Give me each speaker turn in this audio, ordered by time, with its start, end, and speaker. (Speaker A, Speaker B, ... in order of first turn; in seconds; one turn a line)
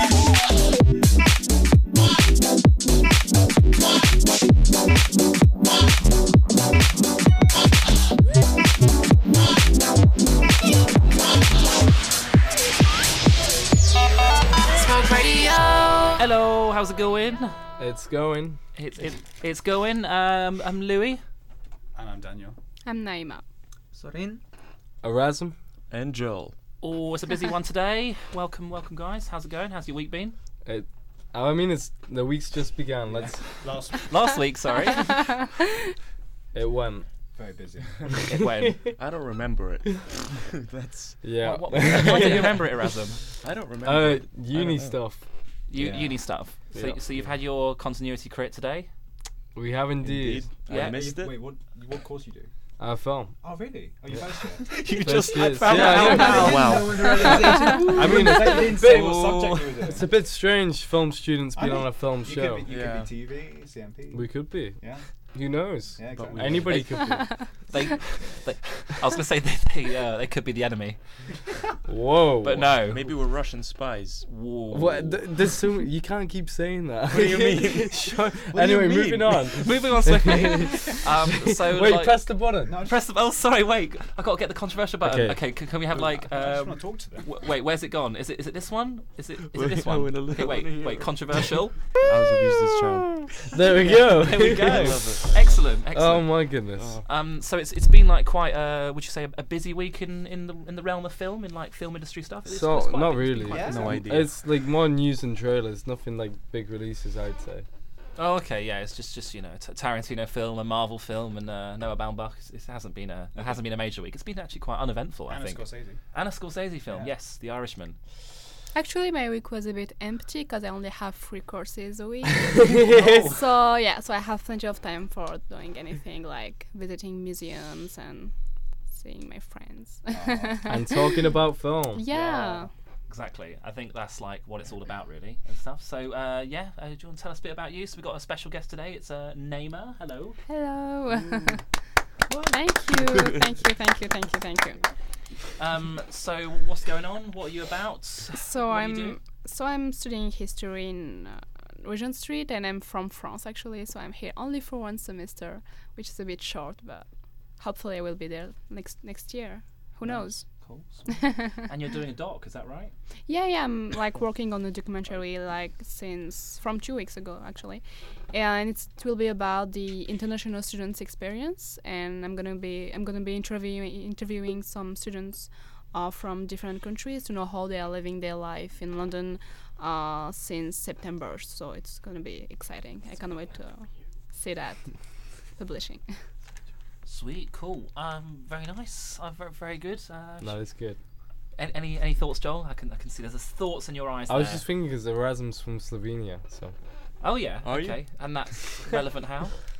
Speaker A: 16.1-17.5
Speaker B: 17.8-18.6
Speaker A: 18.7-21.2
Speaker C: 21.9-22.6
Speaker D: 22.8-23.4
Speaker E: 23.9-24.4
Speaker B: 25.0-25.6
Speaker F: 25.9-26.5
Speaker A: 26.8-30.4
Speaker B: 30.6-33.4
Speaker C: 33.1-34.1
Speaker A: 33.9-35.3
Speaker D: 34.9-35.5
Speaker B: 36.5-37.1
Speaker C: 37.4-38.2
Speaker A: 38.3-38.8
Speaker B: 38.3-38.9
Speaker F: 39.0-41.2
Speaker B: 41.2-42.9
Speaker A: 41.4-43.2
Speaker F: 41.8-42.4
Speaker F: 43.4-45.0
Speaker B: 43.8-45.2
Speaker A: 45.7-48.9
Speaker C: 45.7-46.2
Speaker B: 49.5-50.5
Speaker F: 50.0-51.4
Speaker A: 50.7-51.0
Speaker C: 50.8-52.5
Speaker B: 52.8-53.4
Speaker C: 53.4-54.7
Speaker A: 54.7-56.6
Speaker F: 54.9-57.6
Speaker B: 55.0-59.3
Speaker E: 55.7-59.1
Speaker C: 56.2-56.6
Speaker C: 57.9-60.1
Speaker F: 58.7-60.0
Speaker B: 59.9-62.6
Speaker C: 61.6-64.3
Speaker F: 62.7-63.1
Speaker B: 64.1-64.8
Speaker B: 65.3-67.3
Speaker C: 66.0-66.8
Speaker F: 66.1-67.1
Speaker D: 67.1-67.5
Speaker A: 67.7-71.0
Speaker B: 71.9-72.7
Speaker A: 72.4-73.0
Speaker F: 72.8-74.2
Speaker A: 74.2-75.2
Speaker B: 74.7-82.8
Speaker F: 77.1-79.3
Speaker A: 79.5-91.8
Speaker C: 82.6-83.0
Speaker B: 85.0-85.4
Speaker C: 85.9-87.3
Speaker F: 89.5-93.3
Speaker B: 93.5-95.1
Speaker A: 93.9-96.4
Speaker F: 93.9-95.7
Speaker B: 95.9-97.0
Speaker F: 96.8-97.0
Speaker A: 97.0-104.0
Speaker B: 102.5-107.7
Speaker F: 103.5-104.4
Speaker C: 103.5-103.9
Speaker A: 108.2-118.0
Speaker C: 113.3-113.6
Speaker C: 115.3-116.0
Speaker D: 118.7-128.3
Speaker B: 122.4-123.2
Speaker A: 122.7-123.4
Speaker D: 128.9-131.4
Speaker C: 130.1-130.7
Speaker B: 130.7-132.0
Speaker D: 131.9-132.7
Speaker A: 132.1-140.4
Speaker D: 140.5-141.6
Speaker D: 142.5-144.8
Speaker F: 142.9-143.5
Speaker A: 145.6-149.2
Speaker D: 148.3-160.4
Speaker A: 160.0-162.9
Speaker D: 161.1-161.7
Speaker D: 163.3-184.8
Speaker D: 185.6-186.1
Speaker A: 187.1-190.6
Speaker B: 190.4-191.0
Speaker A: 191.6-194.6
Speaker B: 194.3-196.7
Speaker A: 197.2-199.5
Speaker F: 197.6-198.0